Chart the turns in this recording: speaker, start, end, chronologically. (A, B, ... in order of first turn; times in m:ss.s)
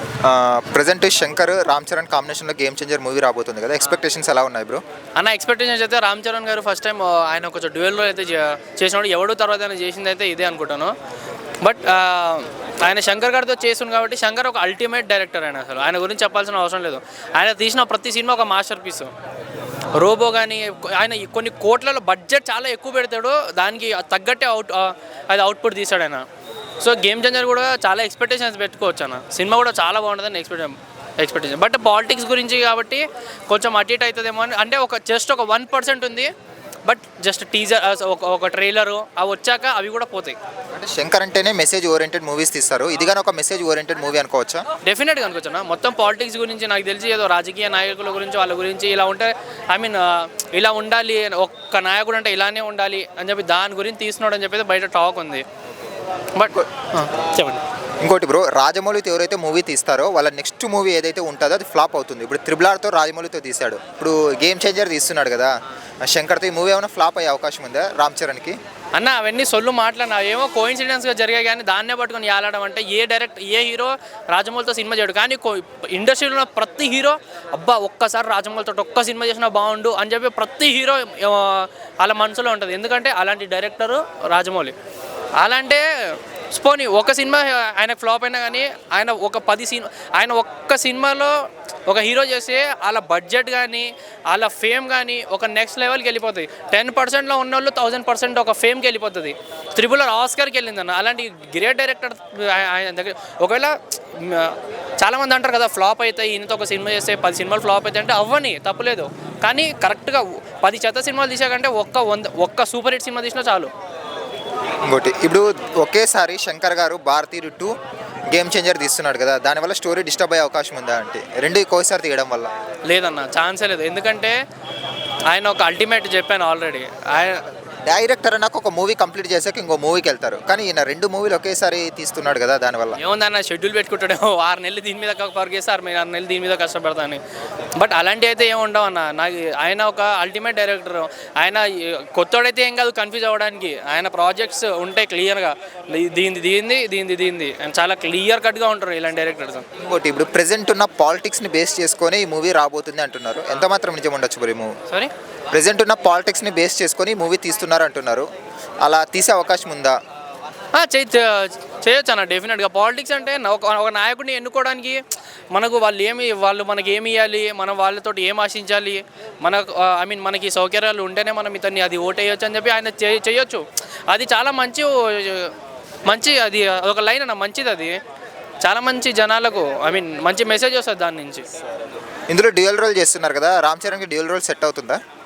0:00.2-0:04.8 A
0:05.2-0:10.9 B
0:11.6-0:19.1 B
0:19.9-0:26.2 B
0:26.8-0:36.3 B
0:36.8-0:40.4 B
0:40.7-0:44.6 A
0:44.8-0:55.4 B
0:56.3-0:57.6 B
0:58.0-1:05.5 A
1:06.0-1:08.6 A
1:08.9-1:24.7 B
1:25.4-1:53.7 B
1:54.8-1:57.7 A
1:58.3-2:02.5 A
2:02.9-2:04.3 B
2:05.3-2:07.4 B
2:07.3-2:13.0 A
2:13.0-2:17.2 B
2:17.8-2:29.6 B
2:29.8-2:34.7 A
2:35.5-2:38.2 A
2:38.8-2:40.0 A
2:40.7-2:45.0 B
2:45.5-2:55.5 B
2:56.0-2:58.0 B
2:58.6-3:01.5 B
3:02.3-3:05.0 A